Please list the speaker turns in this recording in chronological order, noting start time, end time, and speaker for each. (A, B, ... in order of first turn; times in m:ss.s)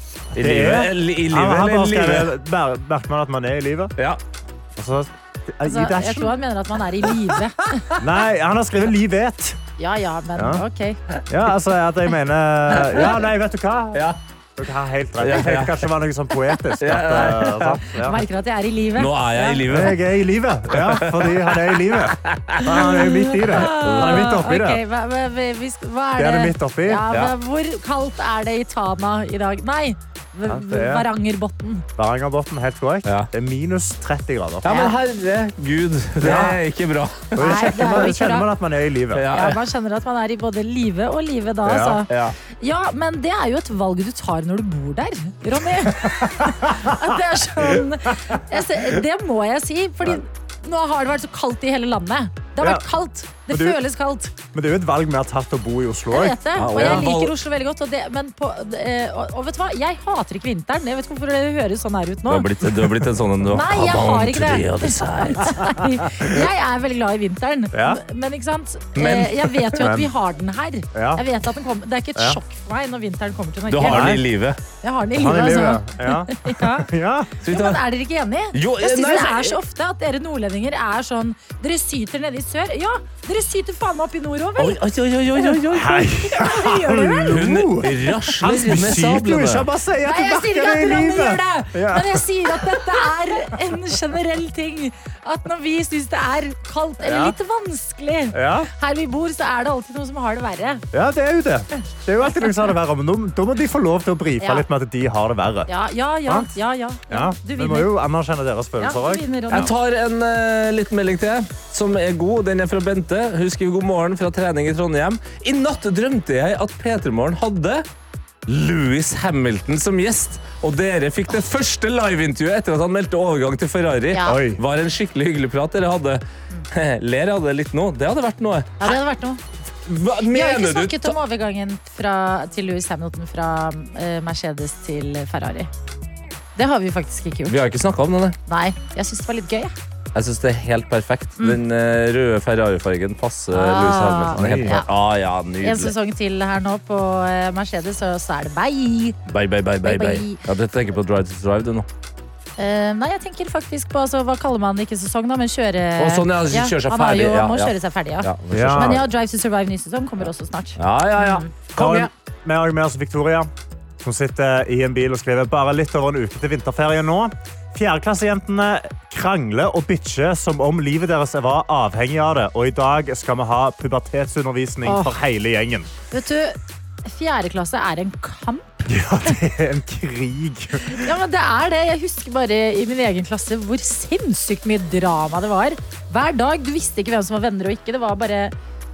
0:00.4-0:02.3 A
0:00.4-0:03.9 B
0:04.8-0:06.4 B
0:05.6-0:07.8 C
0:07.8-0:08.0 A
0:08.0-0:09.6 B
0:09.8-0:11.0 C
0:10.4-0:10.6 B
0:11.3-0:18.2 B
0:12.8-0:13.1 A
0:13.9-0:14.2 A
0:15.2-0:15.9 A
0:16.8-0:17.8 A
0:18.0-0:19.9 C
0:19.0-0:20.0 A
0:19.7-0:24.8 B
0:20.8-0:22.6 A
0:22.6-0:31.9 C
0:23.5-0:24.4 A
0:26.2-0:27.1 B
0:30.5-0:31.1 B
0:32.0-0:34.8 B
0:34.6-0:37.7 A
0:34.7-0:34.9 C
0:36.2-0:36.6 B
0:37.4-0:39.3 B
0:37.4-0:38.5 C
0:39.1-0:39.6 A
0:39.3-0:54.3 C
0:41.6-0:42.0 B
0:42.1-0:42.4 A
0:46.0-0:47.0 B
0:47.6-0:48.4 B
0:52.6-0:52.8 B
0:53.5-0:53.8 B
0:54.5-0:57.0 B
0:56.1-1:02.5 C
0:56.6-0:57.3 A
1:02.3-1:05.7 A
1:03.5-1:14.2 C
1:07.7-1:08.0 B
1:09.0-1:09.8 A
1:09.7-1:10.1 B
1:10.9-1:11.2 B
1:13.7-1:14.6 A
1:13.8-1:14.2 B
1:14.8-1:16.9 C
1:15.2-1:17.3 B
1:17.4-1:17.9 A
1:17.4-1:24.8 C
1:18.5-1:19.6 A
1:24.6-1:26.1 A
1:25.4-1:27.4 C
1:25.7-1:33.1 B
1:27.3-1:29.7 A
1:30.0-1:40.8 C
1:37.0-1:37.4 B
1:38.3-1:38.7 B
1:40.9-1:45.7 B
1:44.4-1:44.6 C
1:45.7-1:47.9 C
1:46.3-1:46.5 B
1:47.1-1:49.7 B
1:48.8-1:49.7 C
1:49.5-1:57.9 A
1:58.5-2:09.0 A
2:04.1-2:04.4 C
2:04.3-2:04.6 B
2:08.8-2:09.4 C
2:09.8-2:11.2 A
2:10.2-2:15.7 C
2:16.6-2:17.6 C
2:17.5-2:18.4 A
2:18.5-2:19.8 C
2:20.1-2:25.9 A
2:23.5-2:24.9 C
2:24.4-2:24.8 B
2:25.6-2:29.2 C
2:29.3-2:31.9 A
2:29.8-2:30.4 C
2:32.6-2:41.5 C
2:36.0-2:39.0 A
2:38.5-2:39.0 B
2:40.8-2:42.1 A
2:41.8-2:43.5 B
2:44.0-2:55.9 B
2:54.8-2:55.1 C
2:56.1-2:59.4 C
2:58.9-3:01.1 B
3:00.8-3:08.5 C